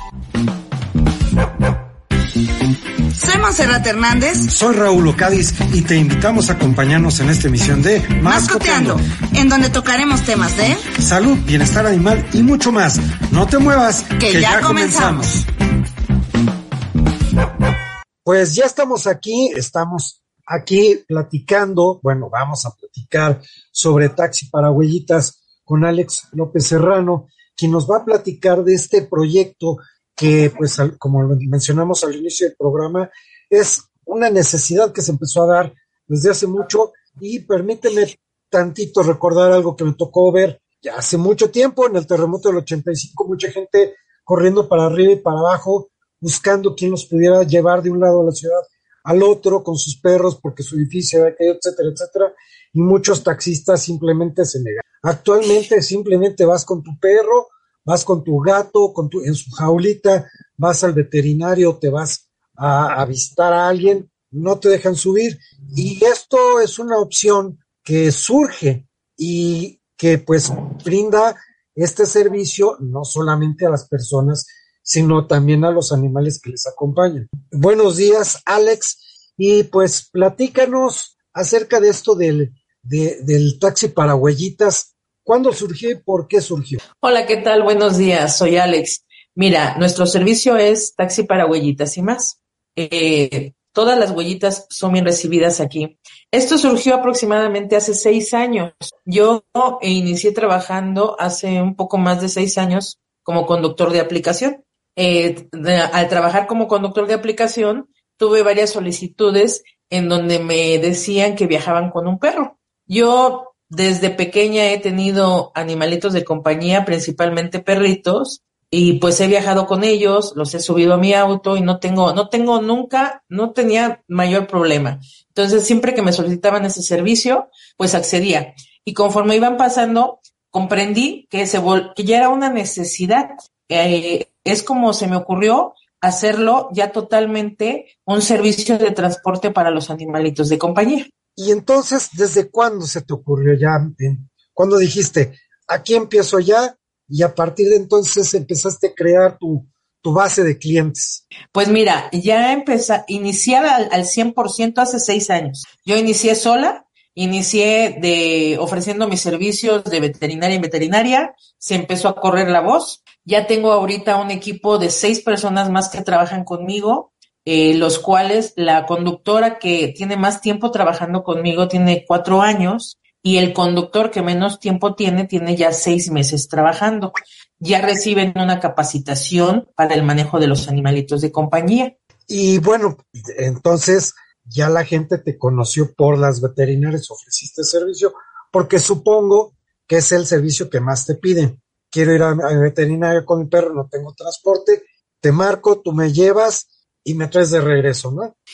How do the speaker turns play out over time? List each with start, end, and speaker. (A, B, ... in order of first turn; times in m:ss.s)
0:03.1-0:04.5 A
0:04.5-0:09.0 B
0:08.2-0:10.9 A
0:11.0-0:15.4 B
0:14.2-0:15.3 A
0:18.2-1:26.8 B
1:27.0-2:21.1 C
2:21.4-2:31.2 B
2:31.5-3:01.9 C
3:02.3-3:18.3 B